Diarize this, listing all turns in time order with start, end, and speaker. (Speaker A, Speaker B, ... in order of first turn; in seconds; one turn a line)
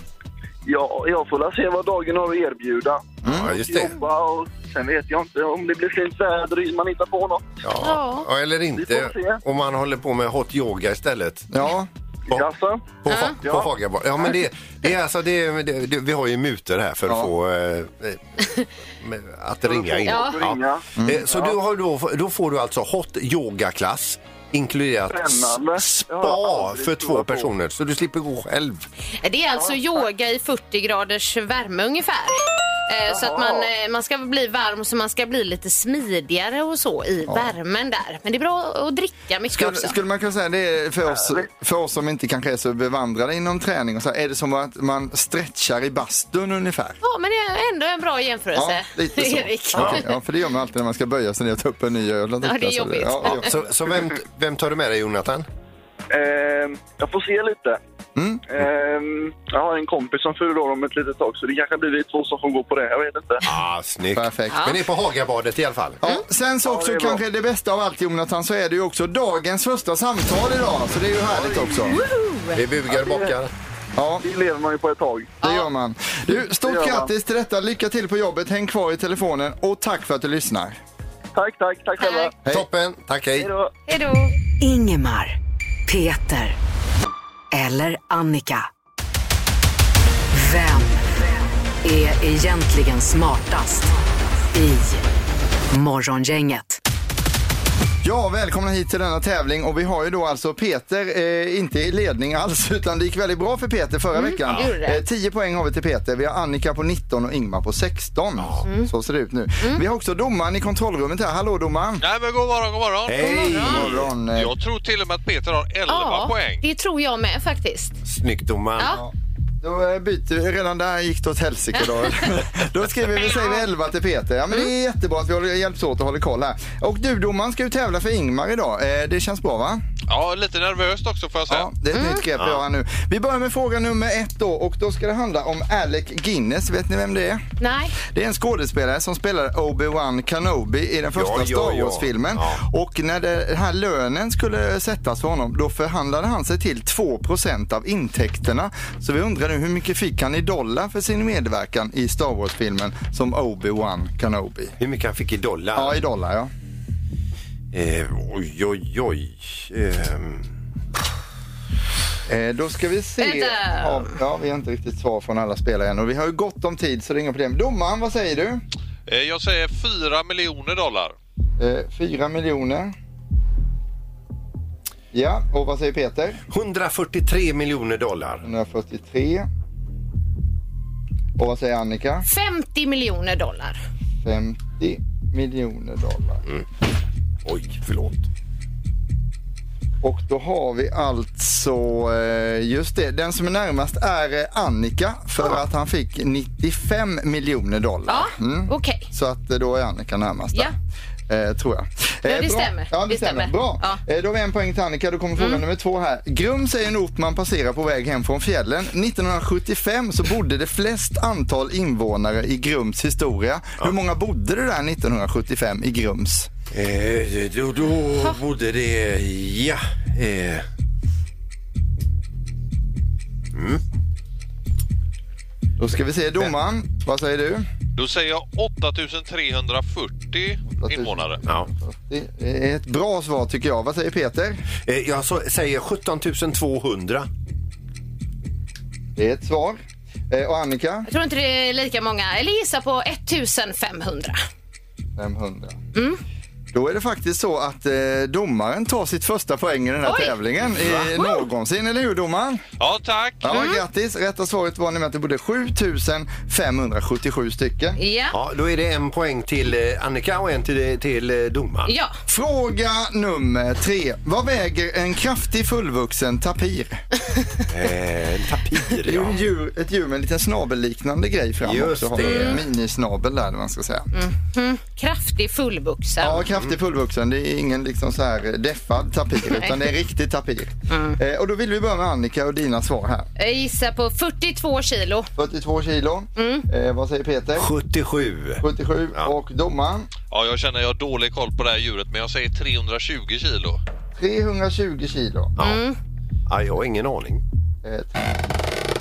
Speaker A: 0.7-7.6
Speaker B: 3.2-3.5
Speaker C: 3.2-4.0
Speaker C: 7.6-11.5
Speaker D: 7.8-8.3
Speaker A: 8.8-9.4
Speaker B: 11.5-11.9
Speaker A: 12.3-13.7
Speaker C: 13.0-28.9
Speaker D: 13.1-13.4
Speaker A: 19.6-21.5
Speaker D: 20.1-20.4
Speaker B: 21.0-21.3
Speaker A: 25.1-27.5
Speaker D: 29.2-40.0
Speaker B: 37.3-37.5
Speaker B: 39.5-47.0
Speaker A: 41.1-41.5
Speaker D: 47.0-50.0
Speaker B: 48.5-53.5
Speaker C: 49.8-50.0
Speaker D: 52.4-53.5
Speaker C: 53.2-55.5
Speaker A: 56.1-57.8
Speaker B: 58.1-58.4
Speaker A: 58.5-63.4
Speaker C: 63.4-66.0
Speaker B: 64.1-64.6
Speaker D: 64.5-64.8
Speaker B: 66.0-72.0
Speaker A: 66.6-67.2
Speaker A: 71.3-72.0
Speaker D: 71.9-72.6
Speaker C: 72.5-73.5
Speaker A: 72.9-73.3
Speaker B: 74.0-74.2
Speaker A: 74.2-75.4
Speaker D: 75.4-75.7
Speaker B: 75.4-80.8
Speaker A: 76.6-77.1
Speaker A: 81.3-82.3
Speaker D: 82.0-82.3
Speaker C: 82.5-83.5
Speaker A: 83.3-83.7
Speaker D: 83.9-84.3
Speaker E: 84.6-86.6
Speaker E: 87.5-88.7
Speaker E: 90.3-91.0
Speaker E: 91.8-93.9
Speaker E: 94.5-95.0
Speaker E: 95.7-96.8
Speaker B: 98.0-112.0
Speaker D: 104.1-105.0
Speaker C: 108.4-108.6
Speaker D: 108.7-108.9
Speaker F: 112.0-116.6
Speaker C: 113.1-114.0
Speaker D: 113.2-113.8
Speaker B: 113.7-114.5
Speaker D: 115.9-118.0
Speaker C: 118.0-118.9
Speaker B: 118.8-129.8
Speaker D: 121.8-122.1
Speaker D: 123.3-123.5
Speaker F: 130.1-131.7
Speaker B: 131.5-137.4
Speaker D: 131.9-132.2
Speaker C: 132.4-132.6
Speaker D: 137.6-137.9
Speaker B: 138.0-154.8
Speaker C: 141.1-142.6
Speaker C: 154.8-156.0
Speaker B: 155.7-156.5
Speaker C: 157.7-160.5
Speaker B: 162.3-168.6
Speaker D: 163.2-164.1
Speaker F: 169.1-171.1
Speaker B: 171.6-172.9
Speaker B: 175.1-176.4
Speaker C: 176.5-178.4
Speaker B: 178.4-179.5
Speaker B: 181.4-182.2
Speaker D: 182.2-183.8
Speaker B: 184.2-186.4
Speaker C: 187.4-188.2
Speaker B: 190.0-200.7
Speaker D: 198.1-199.1
Speaker B: 201.3-216.5
Speaker D: 202.2-204.0
Speaker D: 205.4-205.6
Speaker C: 216.7-220.7
Speaker C: 223.5-223.8
Speaker B: 225.8-227.7
Speaker F: 227.9-231.4
Speaker B: 230.7-234.6
Speaker C: 234.8-237.3
Speaker B: 239.2-241.1
Speaker D: 241.1-244.4
Speaker B: 245.2-245.8
Speaker D: 245.9-246.2
Speaker B: 246.7-252.6
Speaker D: 250.0-250.3
Speaker C: 250.8-251.1
Speaker F: 252.8-253.5
Speaker B: 253.4-258.0
Speaker D: 253.5-253.8
Speaker D: 258.0-258.3
Speaker C: 258.3-261.9
Speaker D: 261.9-262.1
Speaker B: 262.3-267.0
Speaker C: 267.7-269.4
Speaker B: 269.0-274.1
Speaker C: 271.6-272.6
Speaker D: 272.2-272.6
Speaker D: 274.1-276.5
Speaker B: 276.2-283.3
Speaker D: 279.5-279.9
Speaker D: 280.9-281.2
Speaker D: 283.4-285.3
Speaker B: 285.4-287.7
Speaker D: 286.4-286.6
Speaker C: 287.6-288.6
Speaker B: 288.6-290.1
Speaker F: 290.3-293.8
Speaker B: 294.1-295.5
Speaker D: 295.6-296.0
Speaker C: 296.5-297.4
Speaker B: 297.8-298.2